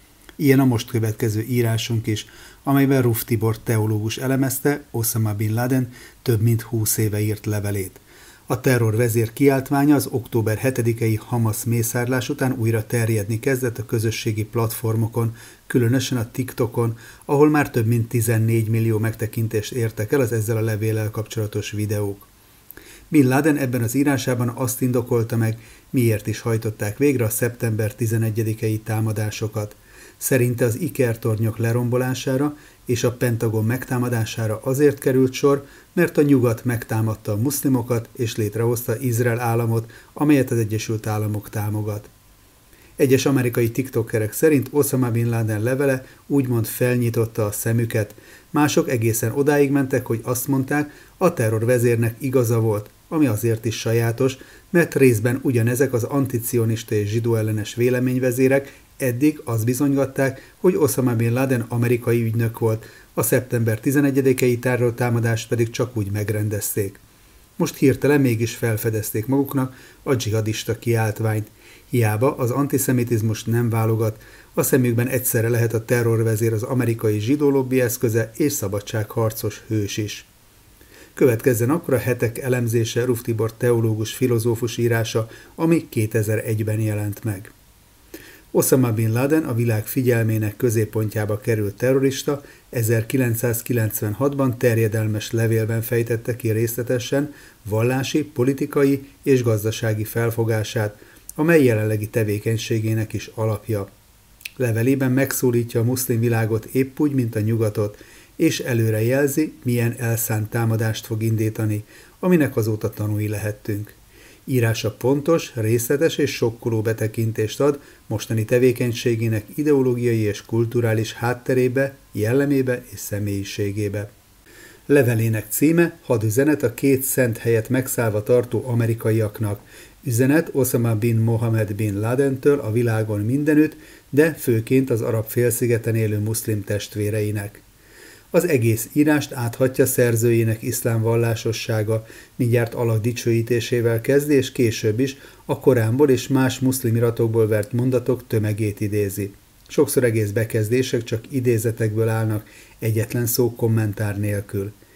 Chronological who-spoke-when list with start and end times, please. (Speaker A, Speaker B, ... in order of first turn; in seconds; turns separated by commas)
Speaker A: 0.4-22.3, Speaker A: 23.1-42.1, Speaker A: 43.0-67.0, Speaker A: 67.6-80.3, Speaker A: 81.1-87.5, Speaker A: 88.5-103.9, Speaker A: 104.6-124.1, Speaker A: 124.9-137.6, Speaker A: 138.3-154.7